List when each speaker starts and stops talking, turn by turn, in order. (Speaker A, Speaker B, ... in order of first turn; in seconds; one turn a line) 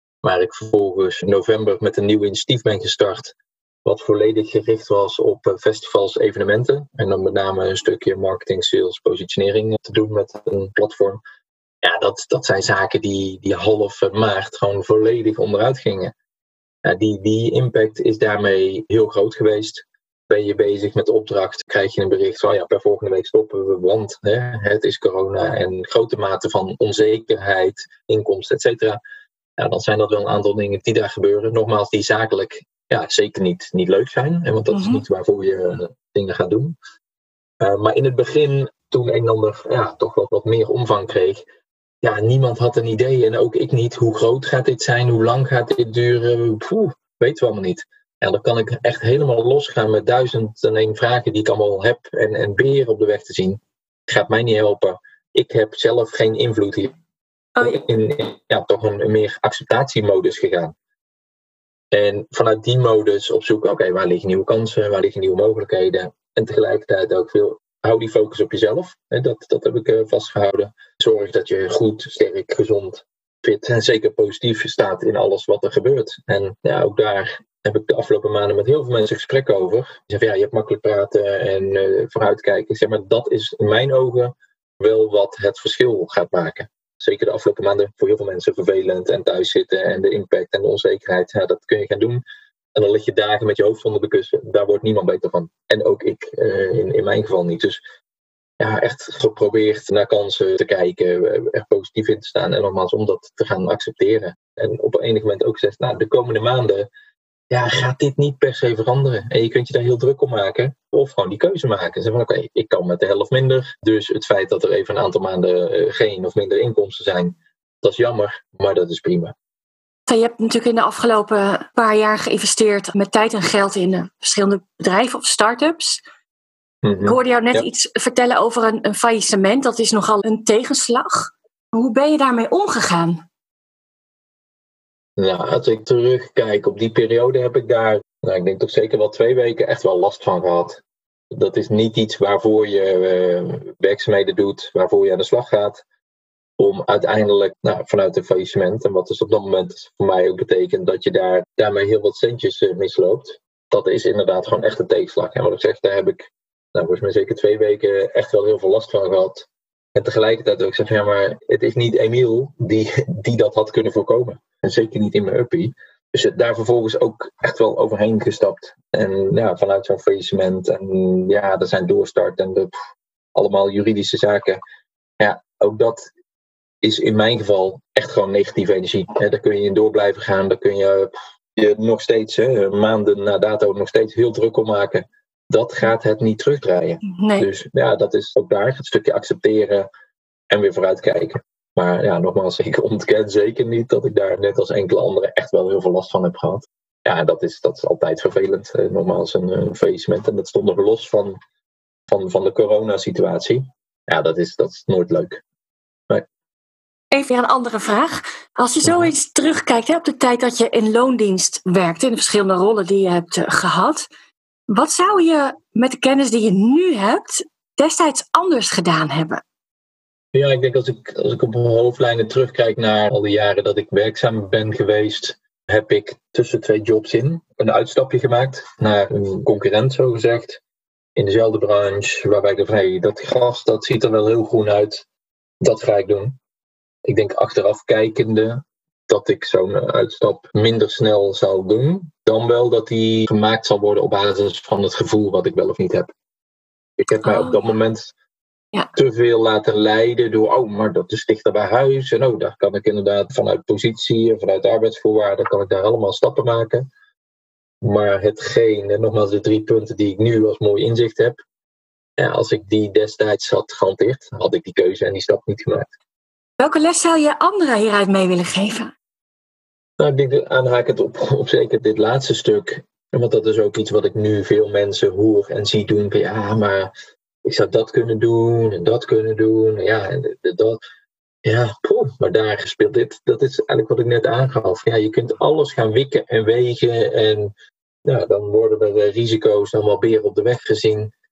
Speaker A: 0.2-11.2
Speaker A: 11.8-16.1
Speaker A: 16.8-29.0
Speaker A: 29.6-36.7
Speaker B: 34.7-35.0
Speaker A: 37.6-41.4
Speaker A: 42.0-56.9
Speaker B: 57.5-57.8
Speaker A: 57.6-60.7
Speaker A: 61.9-92.2
Speaker A: 92.7-97.8
Speaker A: 98.6-106.9
Speaker A: 107.5-119.3
Speaker B: 120.1-126.0
Speaker A: 126.8-127.7
Speaker B: 127.0-133.2
Speaker A: 135.2-145.8
Speaker A: 146.6-172.7
Speaker A: 173.3-174.6
Speaker A: 175.2-176.1
Speaker A: 176.8-189.9
Speaker B: 187.0-187.5
Speaker A: 190.5-201.4
Speaker A: 202.1-205.4
Speaker B: 207.1-214.1
Speaker A: 208.8-209.1
Speaker B: 214.7-219.4
Speaker A: 220.3-230.6
Speaker A: 231.2-235.0
Speaker A: 235.6-236.4
Speaker A: 237.0-246.1
Speaker A: 247.0-248.1
Speaker B: 247.2-247.6
Speaker A: 248.9-256.9
Speaker A: 257.8-261.4
Speaker A: 262.2-265.9
Speaker B: 266.6-268.9
Speaker A: 270.0-276.9
Speaker A: 277.4-280.8
Speaker A: 281.4-287.5
Speaker A: 288.0-291.1